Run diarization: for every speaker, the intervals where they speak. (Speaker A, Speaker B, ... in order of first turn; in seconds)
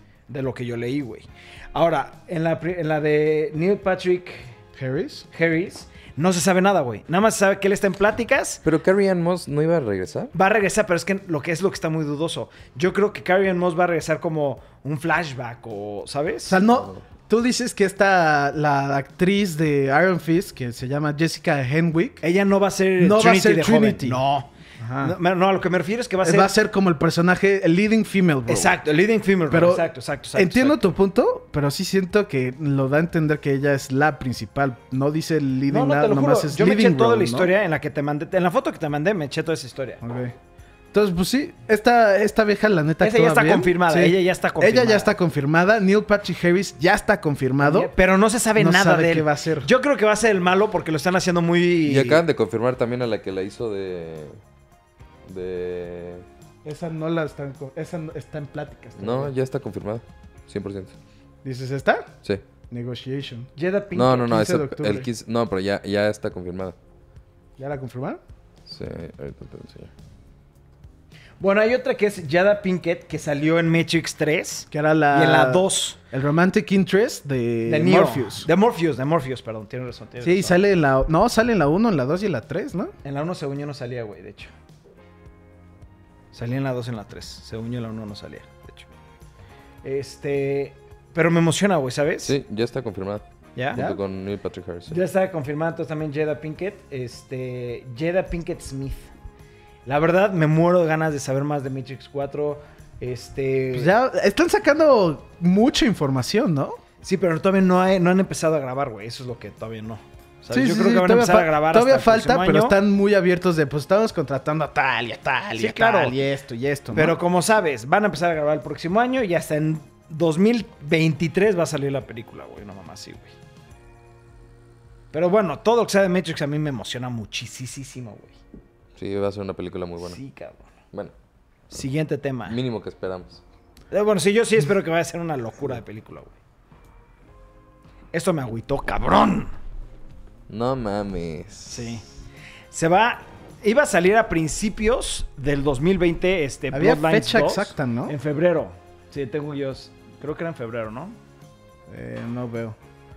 Speaker A: 0.3-4.5, 5.3-8.6, 10.3-16.6, 22.2-24.5, 25.0-26.5, 28.5-30.9, 35.7-40.0, 43.0-45.1, 47.6-52.2, 63.5-64.4, 71.4-76.0, 77.6-80.6, 83.0-84.5, 86.3-88.9, 89.8-92.3, 93.5-93.8, 94.9-99.1, 99.8-103.9, 107.0-112.8, 115.6-116.2, 116.9-123.3, 125.1-128.4, 130.0-130.7, 131.7-132.6, 133.9-136.3, 138.1-139.5, 141.7-142.0, 142.7-151.2
Speaker B: 4.8-5.2, 16.5-22.2, 23.0-24.2, 24.8-25.1, 26.2-28.8, 29.5-37.5, 40.0-40.3, 40.9-47.9, 48.5-49.7, 56.6-59.3, 61.4-62.1, 62.7-63.5, 64.2-65.1, 67.6-68.2, 74.7-78.5, 80.2-82.9, 93.7-94.0, 103.7-106.8, 110.5-117.2, 146.7-148.1, 151.9-152.8
Speaker C: 8.6-10.3, 51.8-54.4, 55.2-56.2, 59.0-60.9, 63.9-66.8, 68.7-69.9, 92.2-95.0, 128.9-130.2, 132.5-133.4, 140.5-142.0